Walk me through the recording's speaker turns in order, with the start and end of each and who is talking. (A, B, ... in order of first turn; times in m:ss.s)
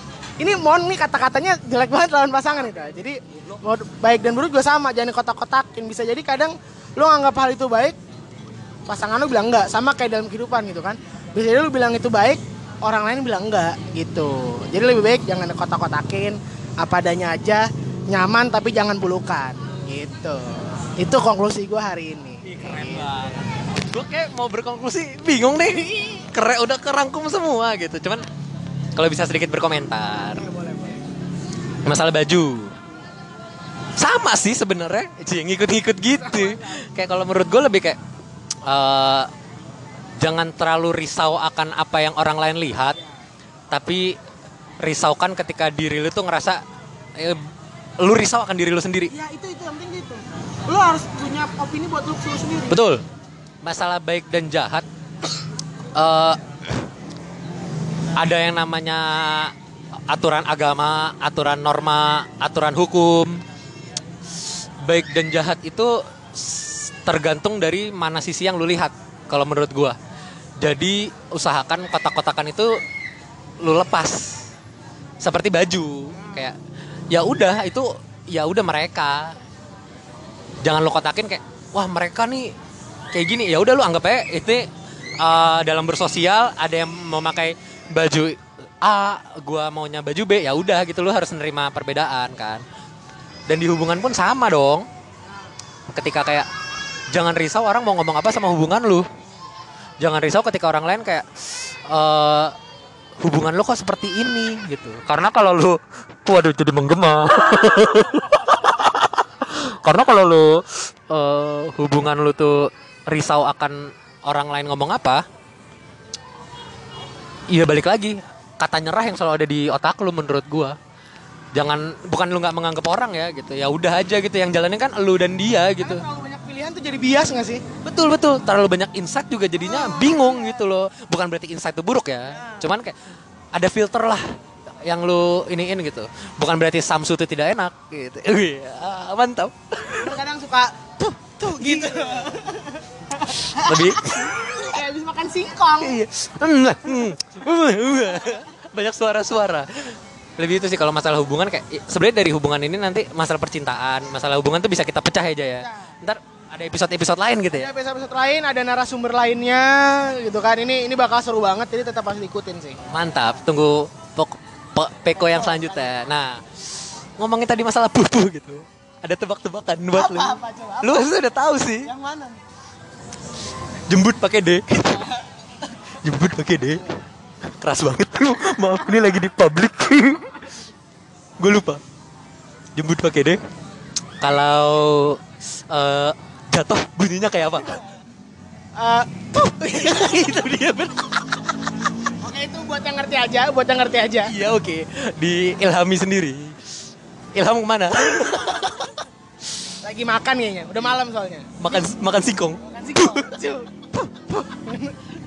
0:00.4-0:08.0 A
0:08.9-0:23.0 A
0:22.4-0:28.2 B
0:29.0-0:30.5 B
0:30.3-0:31.0 A
0:31.8-0:32.7 B
0:34.0-0:38.0 B
0:36.2-0:36.8 A
0:38.6-0:39.3 B
0:40.2-0:43.0 B
0:43.7-0:44.2 B
0:44.8-0:46.6 B
0:47.2-0:47.4 B
0:48.0-0:49.1 B
0:49.1-0:52.8 A
0:52.7-0:53.0 B
0:53.6-0:54.8 B
0:55.9-0:56.8 B
0:58.1-0:59.5 B
1:00.1-1:03.4 B
1:04.8-1:10.0 B
1:10.6-1:12.7 B
1:13.6-1:14.5 B
1:15.2-1:16.6 B
1:17.1-1:19.4 B
1:20.6-1:22.5 B
1:23.1-1:24.7 B
1:25.2-1:32.6 B
1:33.5-1:34.9 B
1:35.9-1:36.5 B
1:37.1-1:39.1 B
1:40.0-1:42.5 B
1:43.2-1:55.2 B
1:57.5-2:00.8 B
2:01.5-2:06.1 B
2:05.8-2:07.6 A
2:07.8-2:13.0 B
2:09.6-2:10.6 A
2:12.3-2:12.6 A
2:13.5-2:14.2 B
2:14.8-2:20.2 B
2:19.9-2:26.0 A
2:21.5-2:22.4 B
2:23.5-2:24.3 B
2:25.8-2:37.7 B
2:35.6-2:35.9 A
2:37.5-2:42.8 A
2:42.9-2:51.9 B
2:45.2-2:45.9 A
2:49.9-2:51.1 A
2:51.8-2:52.4 A
2:53.9-2:55.0 B
2:56.0-2:56.9 B
2:57.4-3:00.4 B
3:01.4-3:01.8 B
3:02.7-3:03.4 B
3:04.2-3:07.8 B
3:08.8-3:10.2 A
3:09.6-3:11.3 B
3:12.2-3:14.3 A
3:14.2-3:16.7 B
3:17.3-3:19.0 B
3:19.8-3:21.5 A
3:21.6-3:23.3 B
3:22.6-3:25.0 A